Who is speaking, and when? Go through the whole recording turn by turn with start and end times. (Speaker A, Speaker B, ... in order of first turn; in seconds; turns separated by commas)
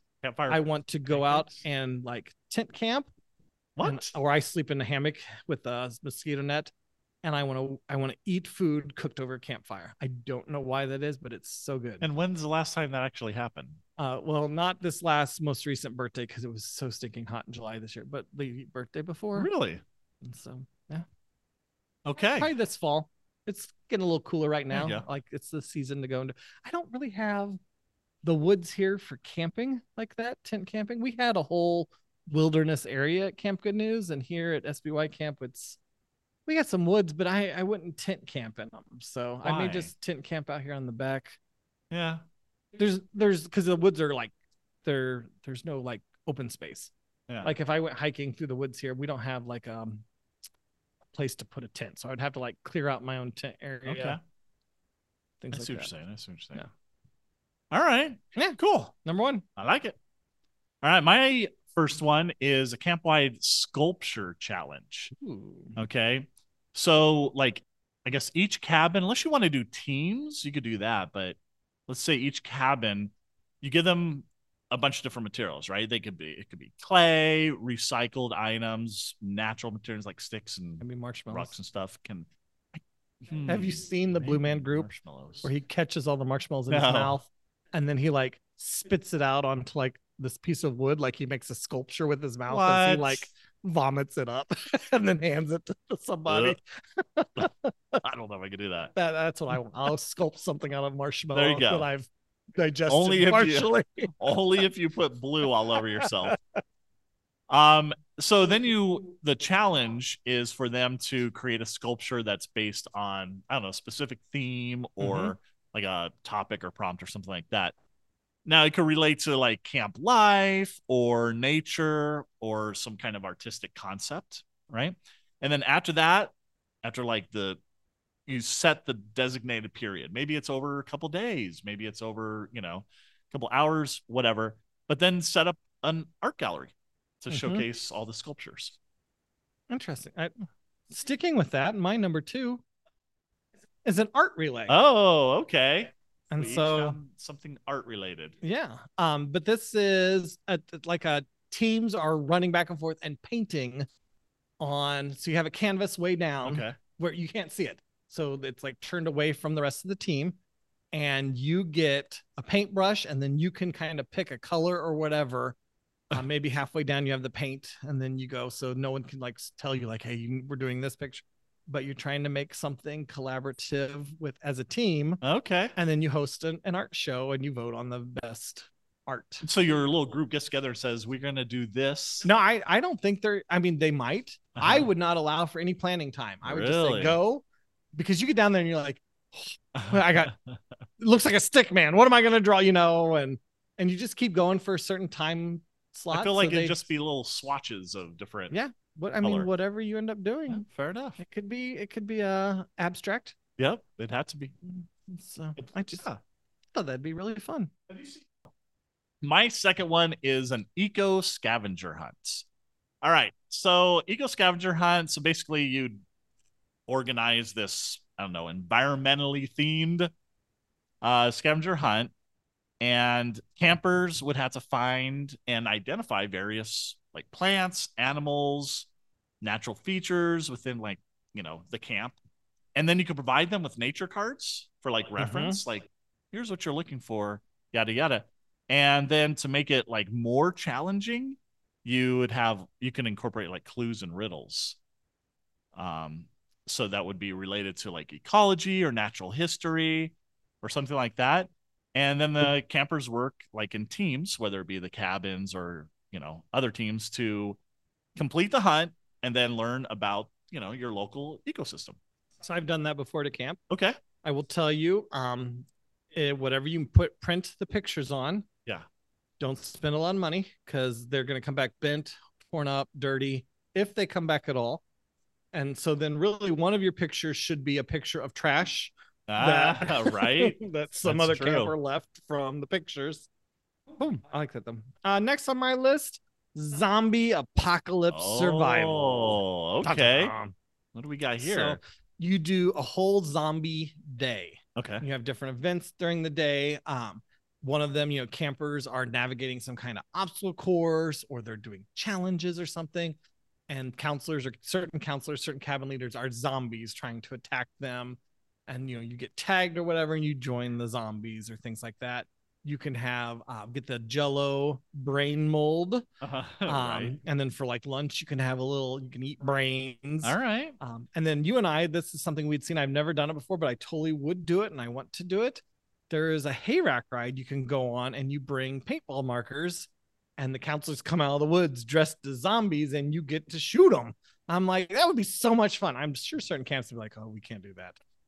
Speaker A: 0.2-1.6, Speaker B: 0.5-3.1, Speaker A: 3.8-4.1, Speaker B: 3.8-12.1, Speaker A: 12.0-13.8, Speaker B: 14.0-19.5, Speaker A: 19.3-19.8, Speaker B: 20.2-21.0, Speaker A: 22.0-22.5, Speaker B: 22.3-27.6, Speaker A: 24.7-25.1, Speaker B: 28.2-35.8, Speaker B: 36.5-41.4, Speaker A: 39.4-39.9, Speaker A: 41.9-42.2, Speaker B: 42.8-44.3, Speaker B: 44.8-50.0, Speaker A: 47.3-47.5, Speaker B: 51.1-54.2, Speaker A: 53.8-54.2, Speaker B: 55.4-55.9, Speaker A: 55.5-56.6, Speaker A: 57.7-58.9, Speaker B: 58.3-59.4, Speaker A: 59.6-60.0, Speaker A: 60.8-65.1, Speaker B: 65.1-65.8, Speaker A: 65.8-85.5, Speaker B: 80.8-81.6, Speaker B: 83.5-84.9, Speaker B: 85.4-98.0, Speaker A: 86.7-87.2, Speaker A: 92.5-93.3, Speaker A: 96.3-96.6, Speaker A: 98.0-98.9, Speaker B: 98.9-104.3, Speaker A: 101.3-101.9, Speaker A: 102.9-106.4, Speaker B: 106.0-106.6, Speaker A: 107.5-117.7, Speaker B: 115.0-115.3, Speaker A: 118.4-127.6, Speaker A: 128.3-138.8, Speaker B: 137.3-137.7, Speaker B: 139.7-140.3, Speaker B: 140.9-142.6, Speaker B: 143.8-144.8, Speaker A: 144.7-148.3, Speaker B: 146.3-147.0, Speaker B: 148.4-153.8, Speaker B: 154.6-160.4, Speaker A: 156.4-156.8, Speaker B: 160.9-165.6, Speaker B: 166.1-175.2, Speaker A: 175.2-175.7, Speaker B: 175.7-179.4, Speaker A: 179.4-182.3, Speaker B: 182.2-190.3, Speaker A: 184.6-184.9, Speaker A: 186.4-187.2, Speaker A: 189.8-190.6, Speaker B: 191.0-196.8, Speaker A: 196.1-198.5, Speaker B: 198.5-200.6, Speaker A: 199.2-199.5, Speaker A: 200.5-201.2, Speaker B: 201.2-203.3, Speaker A: 203.6-204.5, Speaker B: 204.7-206.1, Speaker A: 205.6-206.2, Speaker B: 206.7-207.7, Speaker A: 207.9-208.3, Speaker A: 209.2-212.4, Speaker A: 213.0-216.0, Speaker A: 216.9-220.1, Speaker A: 221.0-222.1, Speaker A: 222.8-228.9, Speaker A: 229.4-232.2, Speaker A: 232.7-244.8, Speaker B: 235.2-235.6, Speaker A: 245.8-257.6, Speaker A: 258.1-262.0, Speaker B: 262.4-263.6, Speaker A: 263.7-264.0, Speaker B: 264.2-268.4, Speaker B: 269.4-274.8, Speaker B: 275.5-283.3, Speaker A: 279.3-281.7, Speaker B: 284.0-290.5, Speaker A: 288.1-290.3, Speaker A: 290.9-291.8, Speaker B: 291.4-303.2, Speaker A: 294.8-295.0, Speaker B: 303.7-316.1, Speaker A: 316.2-317.2, Speaker B: 316.6-338.0, Speaker A: 320.2-320.8